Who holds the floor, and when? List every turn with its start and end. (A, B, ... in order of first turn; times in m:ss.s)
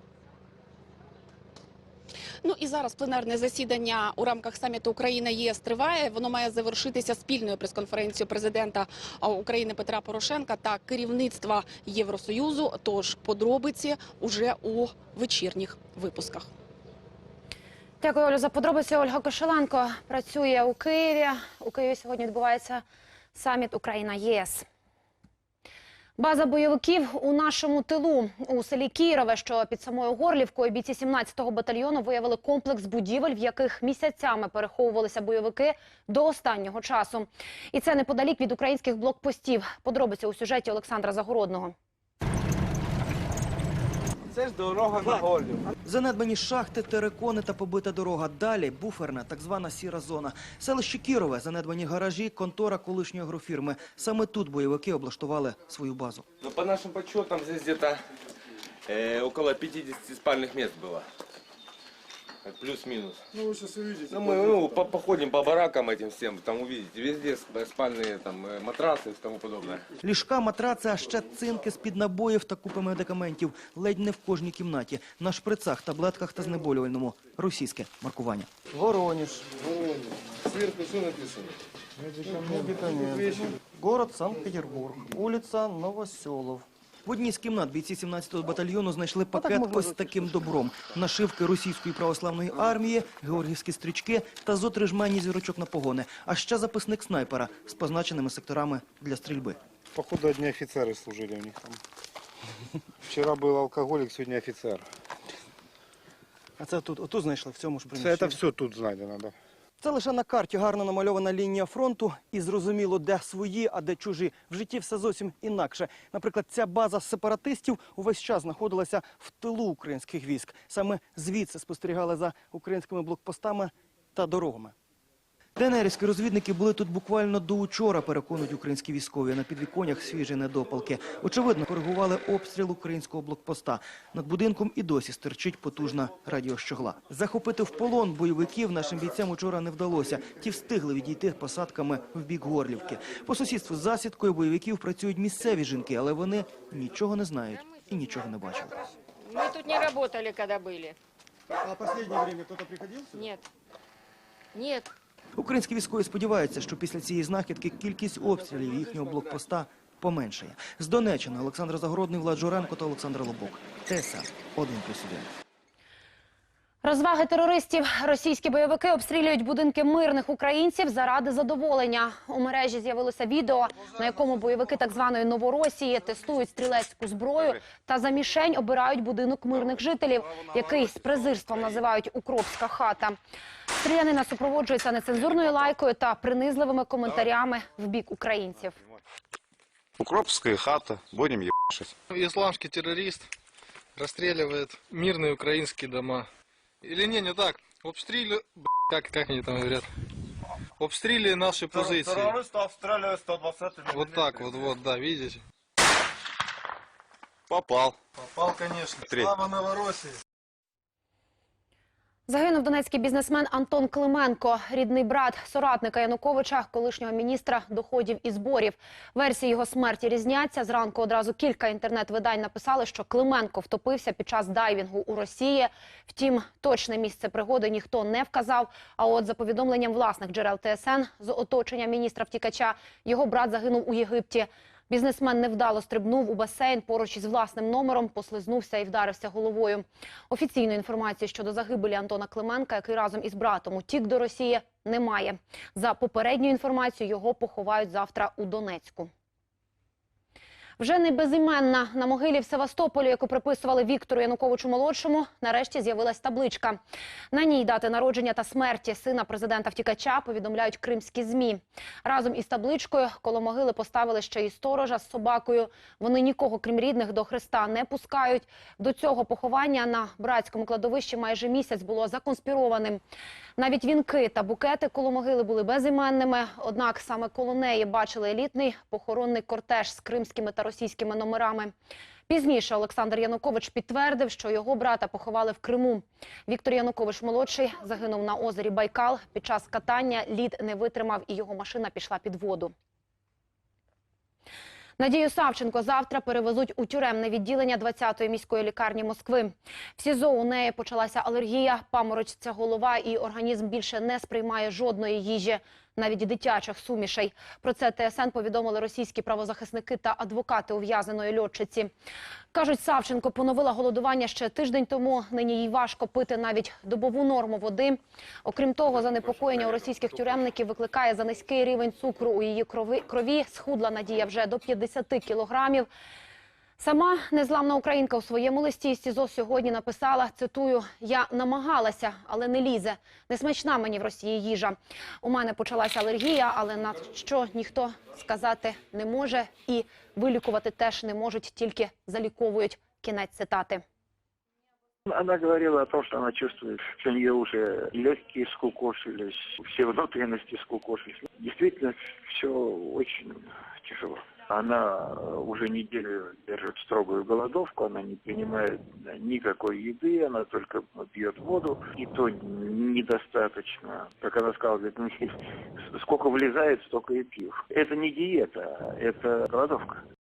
0:02.4-0:16.5 A
0:18.0-0:22.8 B
0:23.3-0:24.6 B
0:26.2-0:41.7 B
0:45.8-0:56.2 C
0:56.4-0:57.9 D
0:58.9-1:01.0 D
1:02.5-1:03.1 D
1:04.2-1:09.8 D
1:10.0-1:19.5 C
1:22.5-1:39.6 C
1:39.9-1:41.8 E
1:43.0-1:44.8 E
1:46.6-1:48.4 C
1:47.9-1:49.3 E
1:49.8-2:04.7 C
2:05.6-2:28.7 C
2:29.2-2:31.0 F
2:33.1-2:33.4 F
2:34.5-2:34.9 F
2:35.4-2:45.3 C
2:46.8-3:03.2 B
3:03.8-3:08.8 B
3:10.3-3:11.8 E
3:12.1-3:13.3 G
3:14.0-3:16.3 G
3:16.8-3:19.9 G
3:20.8-3:22.5 G
3:23.8-3:25.4 G
3:27.8-3:30.1 G
3:32.3-4:09.1 B
4:10.8-4:16.8 B
4:17.3-4:33.0 B
4:33.6-4:41.7 B
4:42.3-4:52.7 B
4:55.0-5:11.9 B
5:12.5-5:25.9 B
5:26.8-5:43.8 B
5:45.1-6:05.4 H
6:05.9-6:10.0 H